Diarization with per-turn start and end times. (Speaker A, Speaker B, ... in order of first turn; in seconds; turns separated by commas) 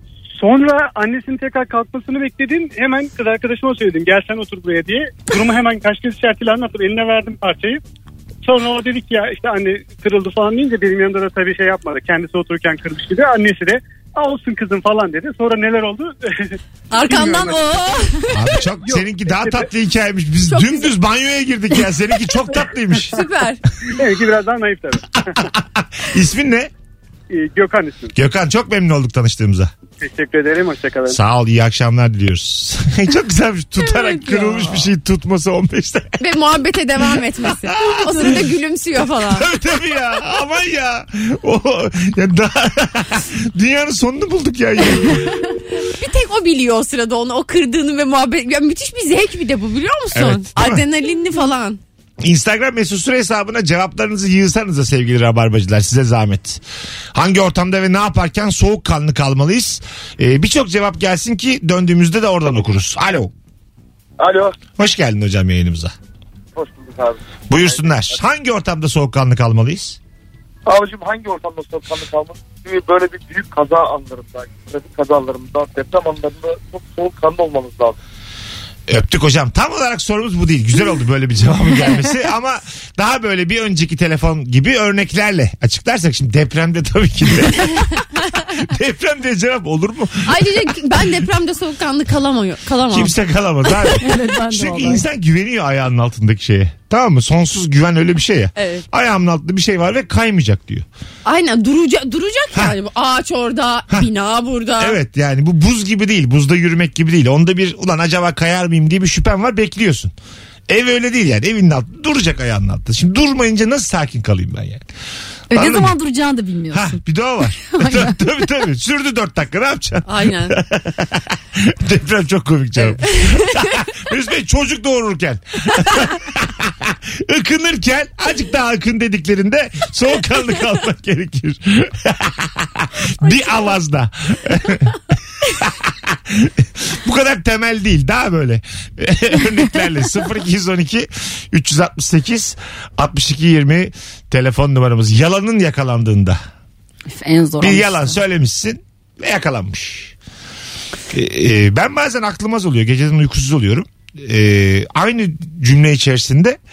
Speaker A: 0.3-7.8, Speaker A: 8.4-17.6, Speaker B: 16.9-18.6, Speaker C: 18.3-23.2, Speaker A: 18.8-19.7, Speaker B: 20.5-20.9, Speaker B: 23.1-23.6, Speaker A: 24.0-25.4, Speaker C: 25.3-26.7, Speaker A: 27.3-28.1, Speaker C: 28.1-29.7, Speaker A: 30.0-31.2, Speaker C: 31.1-36.3, Speaker D: 33.8-34.9, Speaker B: 36.2-39.5, Speaker C: 37.4-38.5, Speaker D: 37.8-38.3, Speaker C: 39.2-45.5, Speaker B: 45.8-51.8, Speaker C: 50.1-50.9, Speaker C: 52.2-56.6, Speaker C: 57.1-63.3, Speaker E: 64.2-64.5, Speaker C: 64.8-65.9, Speaker E: 66.6-68.1, Speaker C: 67.5-70.0, Speaker E: 70.7-78.0, Speaker C: 78.9-87.9, Speaker C: 88.5-91.1, Speaker B: 90.3-93.1, Speaker C: 92.9-100.8, Speaker D: 94.0-95.0, Speaker B: 98.6-98.8, Speaker B: 101.2-105.0, Speaker C: 104.8-110.1, Speaker C: 110.7-114.9, Speaker C: 115.5-116.0, Speaker D: 115.5-117.0, Speaker C: 116.7-146.4, Speaker D: 117.7-118.2, Speaker B: 120.1-120.6, Speaker B: 123.0-123.4, Speaker D: 147.2-148.2, Speaker C: 147.6-150.1, Speaker C: 151.1-156.6